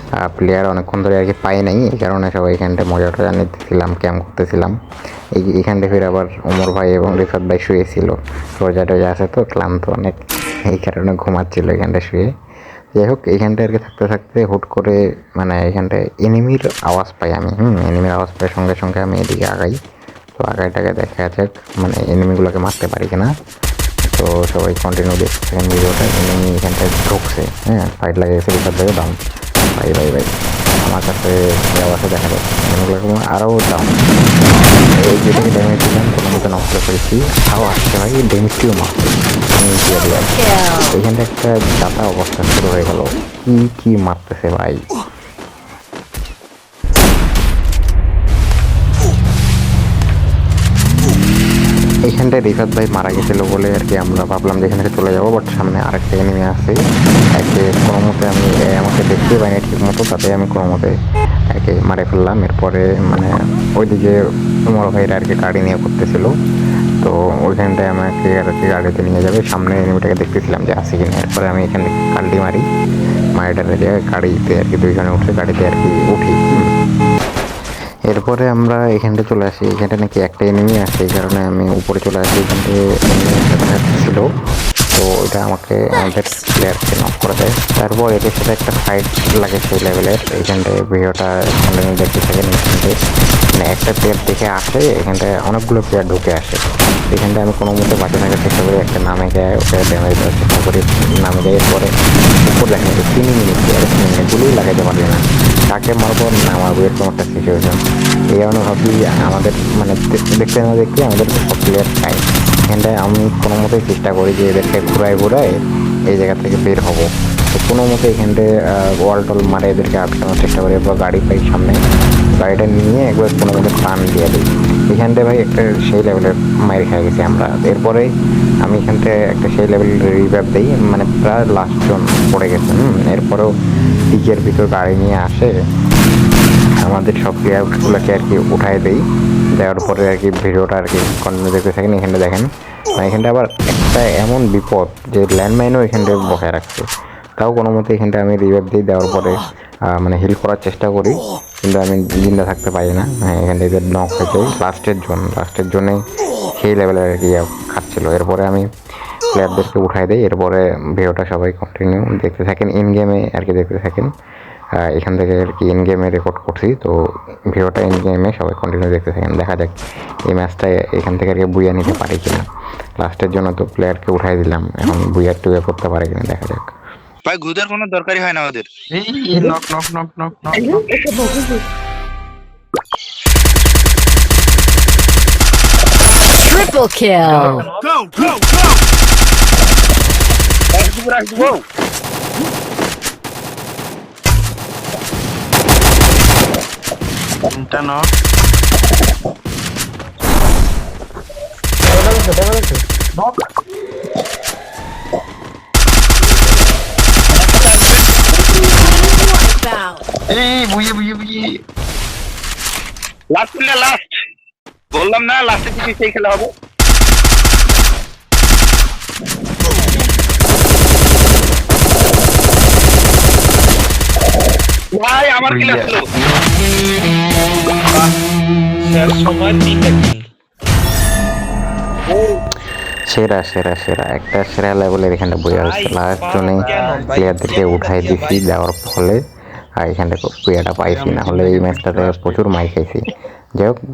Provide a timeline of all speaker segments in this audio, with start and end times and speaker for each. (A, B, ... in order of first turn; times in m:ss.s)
0:00.2-0:04.8 A
0:05.4-0:10.2 A
0:10.7-0:12.3 A
0:13.0-0:19.7 A
0:20.4-0:23.3 A
0:24.1-0:29.2 A
0:29.8-0:30.3 A
0:30.8-0:33.9 A
0:35.0-0:44.9 A
0:40.2-0:41.0 B
0:52.1-0:56.8 A
0:57.4-1:01.0 A
1:01.5-1:04.2 A
1:04.7-1:06.3 A
1:07.0-1:12.6 A
1:13.4-1:16.6 A
1:18.1-1:24.3 A
1:24.9-1:32.9 A
1:33.6-1:47.8 A
1:48.3-1:55.5 A
1:56.1-2:01.8 A
2:02.3-2:08.1 A
2:08.6-2:13.5 A
2:14.1-2:15.5 A
2:16.8-2:19.0 A
2:19.6-2:26.9 A
2:27.4-2:36.0 A
2:36.6-2:38.7 A
2:39.3-2:44.1 A
2:44.8-2:46.9 A
2:47.5-2:49.8 A
2:50.3-2:52.4 A
2:53.0-2:56.7 A
2:57.2-2:58.7 C
2:58.9-3:00.9 D
3:06.2-3:07.7 B
3:07.2-3:08.3 D
3:10.7-3:11.6 C
3:17.5-3:18.1 D
3:27.3-3:28.6 C
3:28.6-3:30.0 B
3:30.3-3:31.6 D
3:33.3-3:34.2 C
3:34.9-3:36.5 C
3:45.0-3:46.1 C
3:45.4-3:46.0 D
3:48.9-3:50.2 E
3:52.1-3:52.4 C
3:53.1-3:59.2 A
3:55.6-3:58.4 E
3:56.6-3:57.3 D
3:59.8-4:03.8 A
4:00.9-4:02.4 D